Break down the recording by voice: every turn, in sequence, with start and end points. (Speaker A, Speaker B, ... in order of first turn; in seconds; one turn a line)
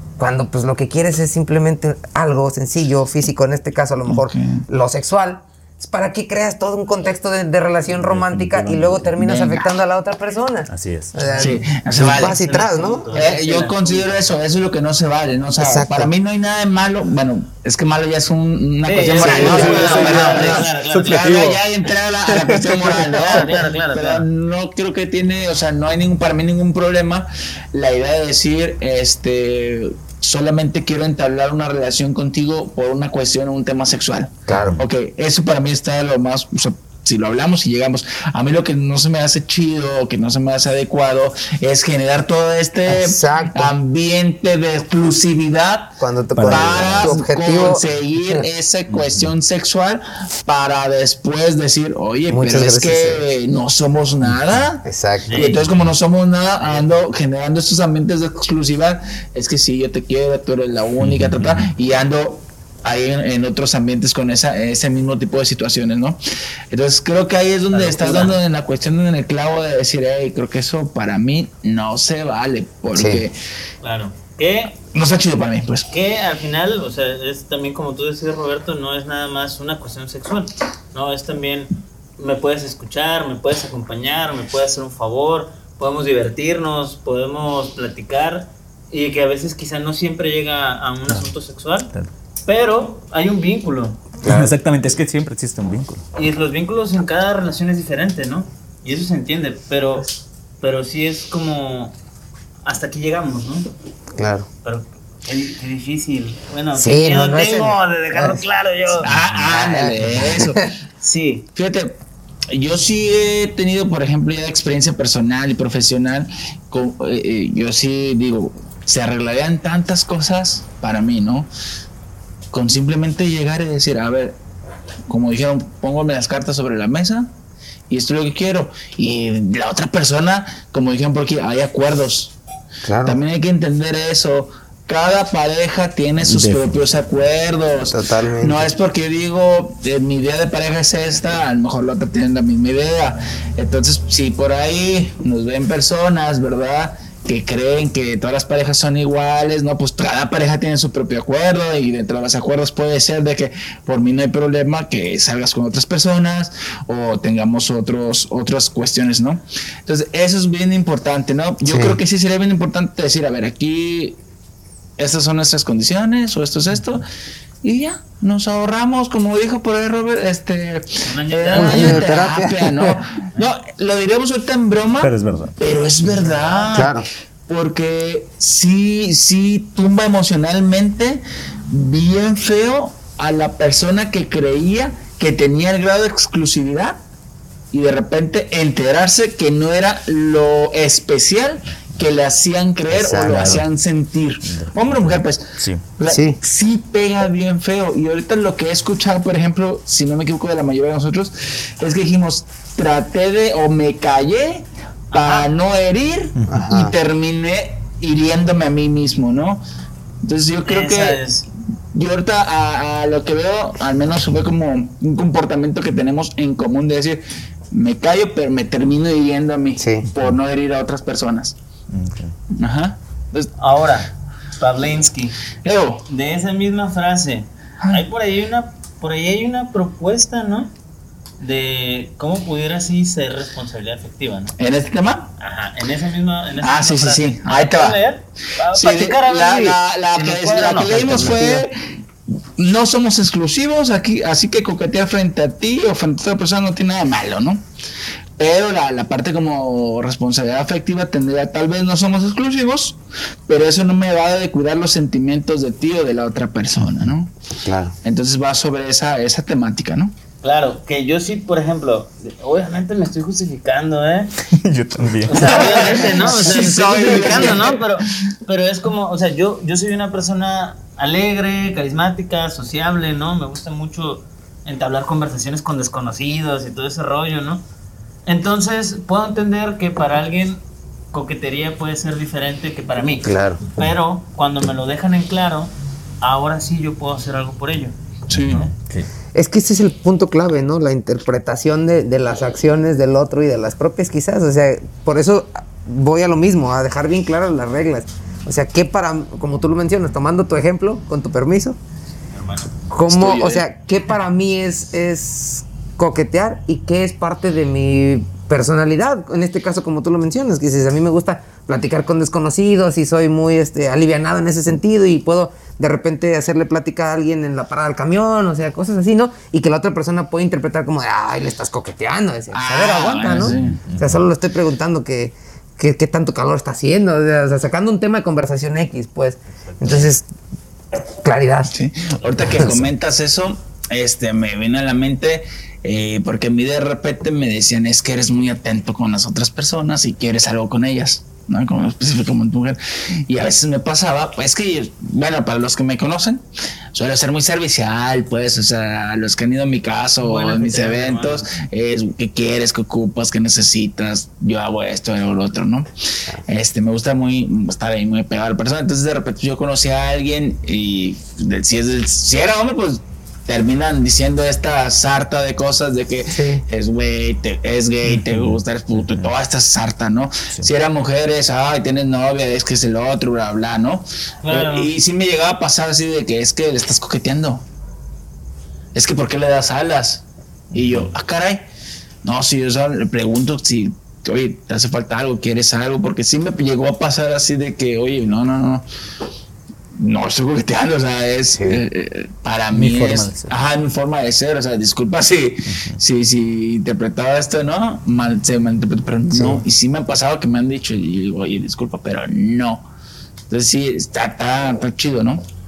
Speaker A: 0.2-13.3
Speaker B: 4.1-4.6
Speaker C: 8.0-9.2
Speaker B: 9.2-9.7
Speaker C: 10.7-11.2
Speaker D: 11.2-14.2
Speaker B: 11.4-12.3
Speaker B: 13.1-73.4
Speaker A: 15.6-16.1
Speaker D: 18.9-21.3
Speaker C: 19.2-21.6
Speaker A: 19.2-20.6
Speaker C: 22.4-22.8
Speaker D: 23.2-24.3
Speaker A: 34.5-34.8
Speaker C: 34.6-34.8
Speaker A: 42.9-43.7
Speaker A: 46.0-48.5
Speaker C: 46.4-47.1
Speaker C: 48.9-49.3
Speaker A: 52.3-53.3
Speaker C: 54.2-54.7
Speaker A: 54.9-55.5
Speaker D: 55.3-55.6
Speaker C: 61.0-61.7
Speaker D: 67.7-68.4
Speaker A: 72.9-73.2
Speaker D: 73.8-74.8
Speaker B: 74.9-75.9
Speaker D: 75.9-91.9
Speaker D: 92.5-94.1
Speaker A: 94.2-94.5
Speaker C: 94.2-96.0
Speaker D: 96.2-100.1
Speaker D: 100.6-102.0
Speaker D: 102.7-103.7
Speaker A: 104.2-104.5
Speaker D: 104.6-109.1
Speaker A: 106.7-108.4
Speaker B: 109.0-110.7
Speaker A: 109.5-110.7
Speaker D: 111.0-111.5
Speaker B: 111.5-121.5
Speaker B: 122.5-124.4
Speaker B: 125.1-127.3
Speaker B: 127.9-132.3
Speaker A: 132.8-133.2
Speaker B: 133.1-164.2
Speaker C: 136.2-136.7
Speaker A: 137.9-138.7
Speaker A: 161.6-162.0
Speaker B: 165.0-167.1
Speaker B: 167.6-187.0
Speaker D: 171.1-172.1
Speaker A: 171.5-173.0
Speaker C: 175.0-175.6
Speaker D: 176.2-176.8
Speaker A: 176.7-177.1
Speaker B: 187.7-209.6
Speaker A: 192.9-193.6
Speaker C: 193.3-193.7
Speaker C: 194.5-195.8
Speaker A: 196.1-196.4
Speaker D: 205.1-205.5
Speaker A: 206.5-206.9
Speaker B: 210.2-211.2
Speaker D: 210.7-211.5
Speaker B: 211.9-221.6
Speaker A: 219.8-220.1
Speaker C: 221.9-222.3
Speaker B: 222.5-223.5
Speaker D: 223.6-225.3
Speaker B: 225.6-226.1
Speaker D: 226.1-230.7
Speaker D: 231.4-234.5
Speaker B: 234.6-235.3
Speaker D: 235.4-241.5
Speaker B: 236.6-238.0
Speaker B: 238.7-241.8
Speaker A: 240.8-241.6
Speaker B: 242.6-247.6
Speaker B: 248.4-257.3
Speaker A: 257.6-257.9
Speaker B: 258.0-260.1
Speaker D: 260.4-264.4
Speaker C: 264.5-266.0
Speaker D: 265.2-277.6
Speaker B: 265.4-267.8
Speaker D: 278.3-280.6
Speaker D: 281.1-288.7
Speaker A: 283.2-283.6
Speaker B: 288.3-288.7
Speaker A: 289.3-301.8
Speaker D: 302.3-302.7
Speaker A: 302.9-330.3
Speaker B: 303.1-303.6
Speaker B: 322.5-323.8
Speaker C: 323.6-324.2
Speaker D: 329.6-330.0
Speaker A: 331.2-331.7
Speaker B: 331.7-377.6
Speaker A: 332.4-332.9
Speaker D: 350.2-351.5
Speaker A: 366.3-366.6
Speaker C: 368.0-369.3
Speaker D: 374.4-374.9
Speaker B: 378.9-381.6
Speaker C: 380.7-381.1
Speaker B: 382.2-388.9
Speaker B: 389.9-402.9
Speaker A: 391.6-391.8
Speaker C: 392.7-393.6
Speaker C: 395.7-396.0
Speaker A: 399.3-399.6
Speaker B: 403.5-405.4